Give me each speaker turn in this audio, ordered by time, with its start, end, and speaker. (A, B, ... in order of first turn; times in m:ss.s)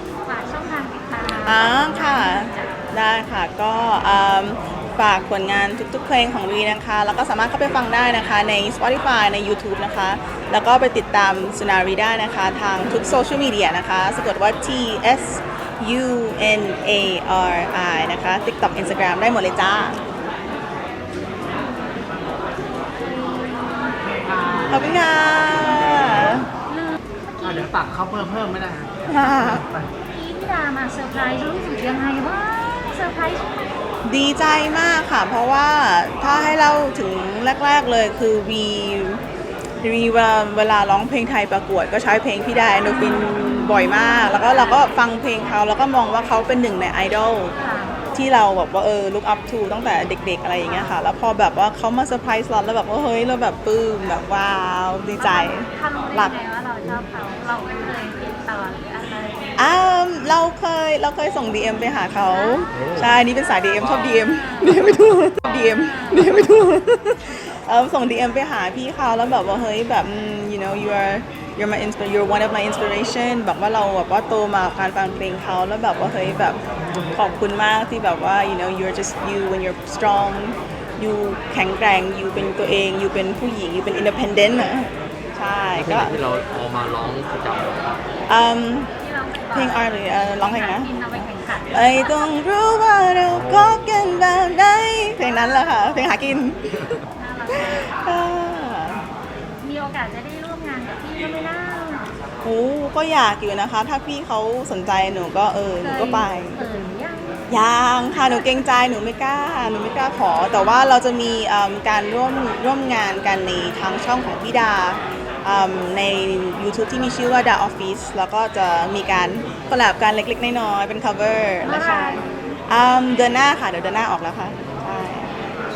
0:00.2-0:02.7 A
0:01.4-0:20.0 B
0:21.5-0:22.0 A
0:23.0-0:24.9 A
0:24.2-0:25.0 C
0:24.7-0:26.5 B
0:25.9-0:26.3 C
0:26.7-0:27.7 A
0:27.4-0:29.9 C
0:29.1-0:29.6 B
0:30.1-0:33.5 A
0:34.0-0:39.2 B
0:39.8-0:47.5 B
0:42.9-0:44.8 A
0:47.6-0:48.0 A
0:48.1-0:56.3 B
0:50.6-0:51.0 A
0:55.2-0:59.5 A
0:59.6-1:16.6 B
1:02.3-1:02.7 A
1:02.7-1:03.2 D
1:03.8-1:04.1 D
1:04.2-1:04.8 A
1:05.7-1:06.3 A
1:17.1-1:26.1 B
1:25.7-1:27.8 D
1:28.3-1:28.9 B
1:29.0-1:29.9 A
1:29.5-1:30.9 B
1:30.4-1:32.1 A
1:31.7-1:36.6 B
1:33.3-1:33.8 D
1:35.6-1:36.2 A
1:37.2-1:38.2 A
1:37.5-1:39.0 B
1:39.6-1:42.1 A
1:42.4-1:46.6 B
1:45.8-1:47.4 A
1:47.5-2:05.5 B
1:50.5-1:50.8 A
2:01.6-2:02.6 A